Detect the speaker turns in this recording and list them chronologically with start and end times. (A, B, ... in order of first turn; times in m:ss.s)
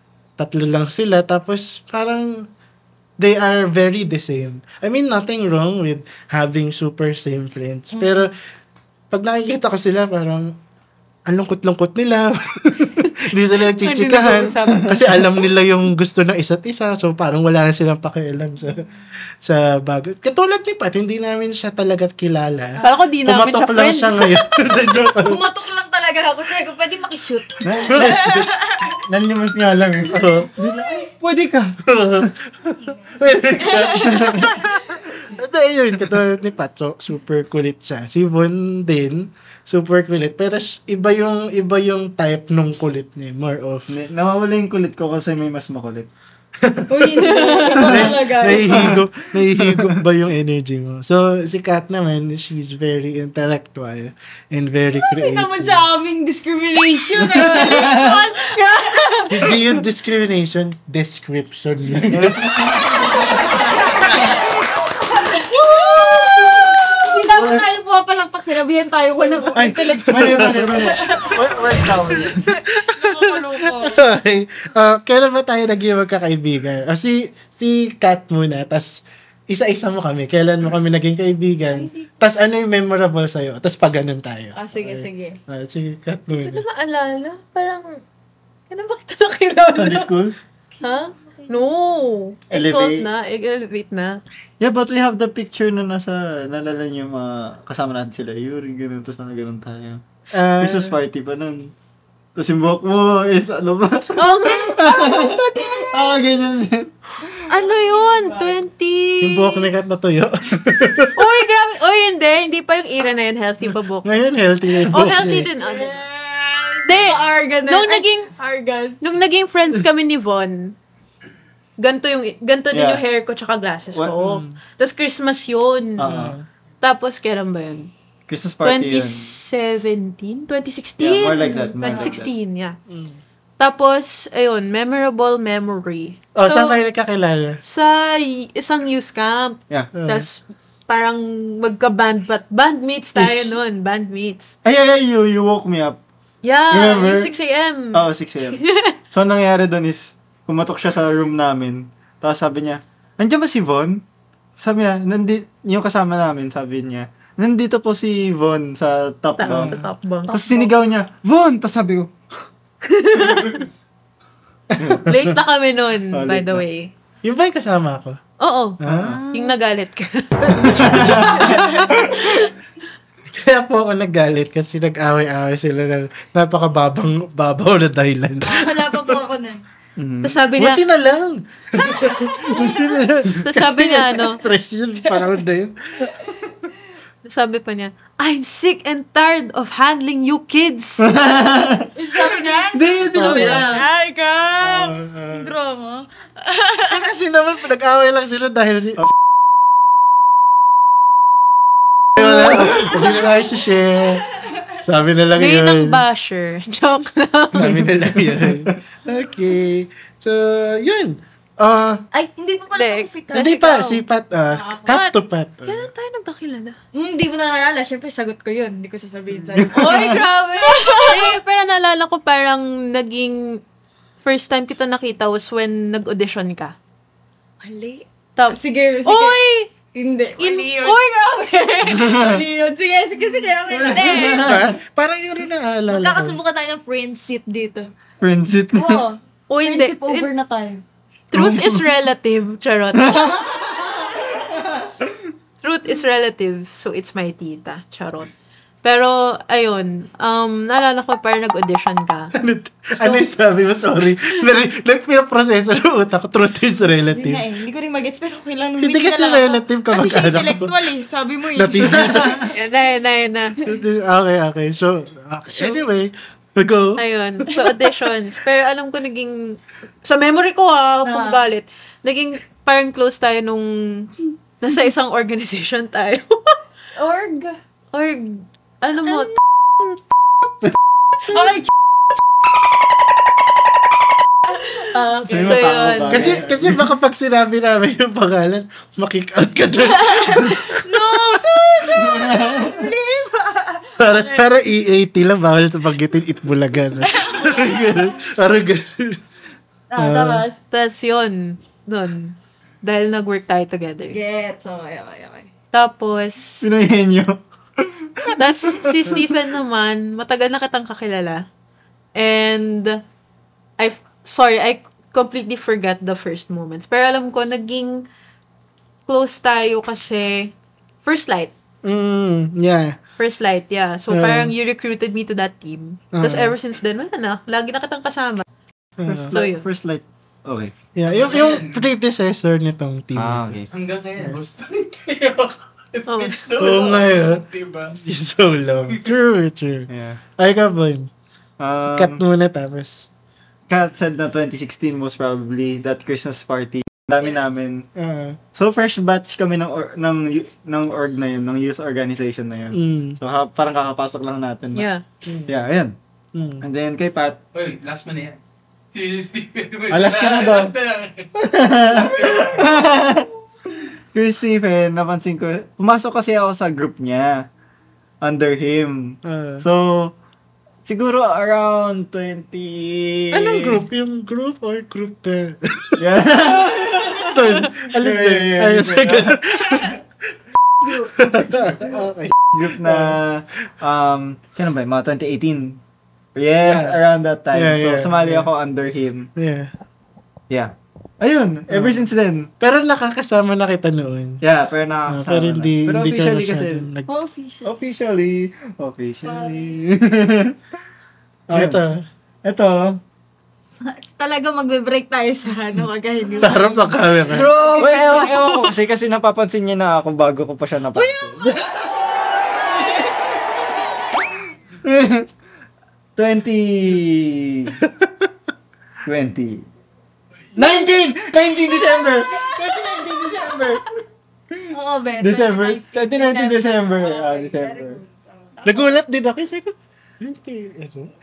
0:00.4-0:02.5 A
0:03.2-0:08.3 A
0:09.1-0:10.5 A
0:11.3-0:18.9 A
0:13.7-0:15.5 B
0:19.4-0:25.4 A
0:22.8-0:23.0 C
0:22.8-0:24.3 B
0:24.9-0:29.0 C
0:27.6-0:32.2 D
0:27.9-0:28.4 A
0:30.1-0:30.5 A
0:31.9-0:44.0 A
0:32.9-0:34.8 C
0:33.6-0:34.6 D
0:43.9-0:46.1 D
0:46.7-0:55.8 A
0:46.9-0:49.0 C
0:47.2-0:48.2 B
0:48.7-0:50.0 D
0:54.9-0:58.6 C
0:57.3-0:59.4 B
0:57.4-0:58.2 D
0:59.3-1:02.8 A
1:01.9-1:03.4 D
1:03.1-1:12.2 C
1:03.9-1:04.3 A
1:05.7-1:06.6 A
1:07.3-1:07.6 D
1:09.5-1:11.0 A
1:10.1-1:12.4 D
1:12.1-1:26.6 A
1:12.8-1:14.0 C
1:21.7-1:22.2 C
1:24.6-1:25.4 C
1:26.3-1:28.0 B
1:28.7-1:30.1 B
1:29.8-1:30.4 D
1:30.8-1:31.8 C
1:30.8-1:34.2 B
1:32.5-1:33.1 D
1:34.6-1:40.0 D
1:40.3-1:41.0 A
1:40.6-1:41.7 D
1:42.4-1:46.9 D
1:44.2-1:45.4 B
1:44.9-1:46.2 C
1:47.3-1:48.6 C
1:47.5-1:49.7 B
1:49.2-1:51.2 A
1:51.2-1:54.1 B
1:53.7-1:55.5 A
1:54.9-1:56.0 B
1:55.6-1:59.0 C
1:56.8-1:58.3 B
1:59.0-2:00.8 B
2:01.8-2:06.1 B
2:02.7-2:03.0 D
2:04.2-2:04.6 A
2:06.0-2:06.4 D
2:06.0-2:06.4 A
2:06.8-2:07.9 B
2:08.3-2:09.4 D
2:08.6-2:12.8 B
2:11.0-2:12.3 D
2:12.9-2:13.2 A
2:13.6-2:16.8 B
2:16.4-2:17.6 A
2:17.6-2:24.6 B
2:20.0-2:20.3 A
2:23.2-2:23.4 A
2:24.6-2:26.0 D
2:26.4-2:29.0 B
2:26.7-2:27.3 D
2:27.9-2:34.0 D
2:34.6-2:42.1 D
2:39.4-2:40.7 B
2:39.5-2:39.8 A
2:43.1-2:43.5 B
2:43.1-2:43.6 D
2:44.7-2:45.4 A
2:44.8-2:45.1 D
2:45.1-2:46.9 B
2:46.1-2:46.6 D
2:47.2-2:48.2 A
2:48.4-2:48.8 B
2:48.8-2:49.6 A
2:48.8-2:49.2 D
2:49.3-2:52.4 B
2:50.4-2:52.1 A
2:50.6-2:52.3 D
2:51.9-2:52.3 C
2:53.4-2:59.2 A
2:58.4-2:59.6 C
3:00.0-3:00.4 D
3:00.2-3:00.8 B
3:00.6-3:06.7 A
3:01.8-3:03.2 C
3:03.4-3:04.4 B
3:05.1-3:05.4 C
3:07.2-3:11.1 B
3:11.0-3:11.9 D
3:12.0-3:17.1 C
3:12.4-3:13.9 D
3:13.1-3:13.7 A
3:14.6-3:15.5 A
3:16.9-3:19.1 A
3:22.2-3:24.2 A
3:22.4-3:24.8 C
3:24.8-3:26.0 A
3:25.4-3:27.9 B
3:27.6-3:32.0 A
3:28.2-3:28.8 D
3:32.1-3:33.8 C
3:32.8-3:34.0 B
3:33.3-3:35.9 A
3:34.5-3:35.0 C
3:34.7-3:35.1 B
3:35.7-3:36.8 B
3:36.9-3:41.4 C
3:39.5-3:40.2 D
3:39.6-3:43.6 B
3:44.2-3:46.7 B
3:47.6-3:49.4 C
3:48.4-3:49.7 B
3:49.9-3:51.0 C
3:50.4-3:52.3 B
3:51.9-3:54.5 C
3:52.0-3:52.4 D
3:53.7-3:54.8 D
3:53.9-3:54.4 B
3:54.4-3:56.4 A
3:55.9-3:57.9 C
3:58.2-3:59.0 D
3:58.7-4:00.8 C
3:59.5-4:00.3 B
4:01.3-4:03.5 B
4:01.3-4:01.9 D
4:02.9-4:04.9 D
4:05.6-4:08.3 B
4:08.8-4:12.3 B
4:12.4-4:17.4 A
4:17.1-4:22.5 C
4:18.8-4:20.7 A
4:21.6-4:22.5 A
4:22.5-4:23.6 B
4:23.6-4:27.0 A
4:27.0-4:36.6 B
4:31.0-4:31.4 C
4:36.9-4:37.6 C
4:37.9-4:39.3 B
4:41.3-4:41.7 C
4:44.7-4:45.7 C
4:44.8-4:46.4 B
4:45.3-4:46.8 D
4:46.1-4:50.8 A
4:50.0-4:54.4 C
4:51.9-4:52.9 D
4:54.0-4:59.2 A
4:57.1-4:58.2 C
4:59.9-5:00.6 C
5:00.0-5:00.4 A
5:00.7-5:04.2 B
5:04.1-5:05.5 C
5:05.7-5:06.6 B
5:06.6-5:09.4 D
5:08.4-5:11.4 B
5:12.2-5:13.0 B
5:13.8-5:18.0 B
5:19.1-5:20.5 B
5:21.0-5:21.5 B
5:21.8-5:23.0 A
5:23.2-5:28.4 B
5:24.1-5:24.5 A
5:26.2-5:26.5 A
5:29.0-5:29.4 A
5:29.0-5:30.7 D
5:29.3-5:29.6 B
5:30.9-5:33.6 A
5:31.1-5:31.9 E
5:33.2-5:33.7 D
5:33.7-5:38.0 E
5:36.1-5:36.4 B
5:36.6-5:41.1 A
5:38.9-5:39.2 E
5:39.9-5:40.2 D
5:41.6-5:42.2 D
5:41.8-5:43.1 A
5:43.7-5:47.8 D
5:47.2-5:47.6 C
5:48.0-5:48.4 A
5:48.6-5:54.9 D
5:52.7-5:53.2 A
5:54.8-5:55.0 B
5:55.3-5:55.6 A
5:55.5-5:55.9 D
5:56.3-5:56.6 A
5:56.6-5:57.4 D
5:57.5-5:58.4 E
5:58.9-6:02.9 E
5:59.9-6:00.7 D
6:01.4-6:03.3 D
6:04.1-6:07.5 D
6:08.2-6:10.2 D
6:09.2-6:09.6 A
6:10.8-6:13.8 D
6:13.3-6:16.0 A
6:15.9-6:19.9 D
6:17.1-6:20.0 A
6:20.8-6:22.0 C
6:21.1-6:23.2 A
6:22.5-6:25.8 D
6:26.4-6:29.3 D
6:26.6-6:27.0 A
6:27.5-6:28.5 A
6:29.4-6:29.7 A
6:30.5-6:32.5 D
6:31.7-6:32.1 A
6:32.6-6:34.4 A
6:34.4-6:36.9 D
6:35.1-6:37.1 A
6:37.1-6:37.7 C
6:37.6-6:40.6 D
6:39.2-6:39.8 C
6:41.5-6:42.0 A
6:41.5-6:41.8 D
6:42.4-6:43.0 D
6:43.8-6:48.7 C
6:46.4-6:47.5 A
6:47.5-6:48.2 B
6:47.8-6:51.8 D
6:50.9-6:53.7 C
6:54.8-6:55.3 D
6:56.2-6:57.8 D
6:57.8-6:58.3 A
6:59.0-6:59.7 D
7:00.6-7:03.8 D
7:00.6-7:03.6 C
7:04.7-7:09.0 C
7:05.2-7:08.0 D
7:08.6-7:11.1 A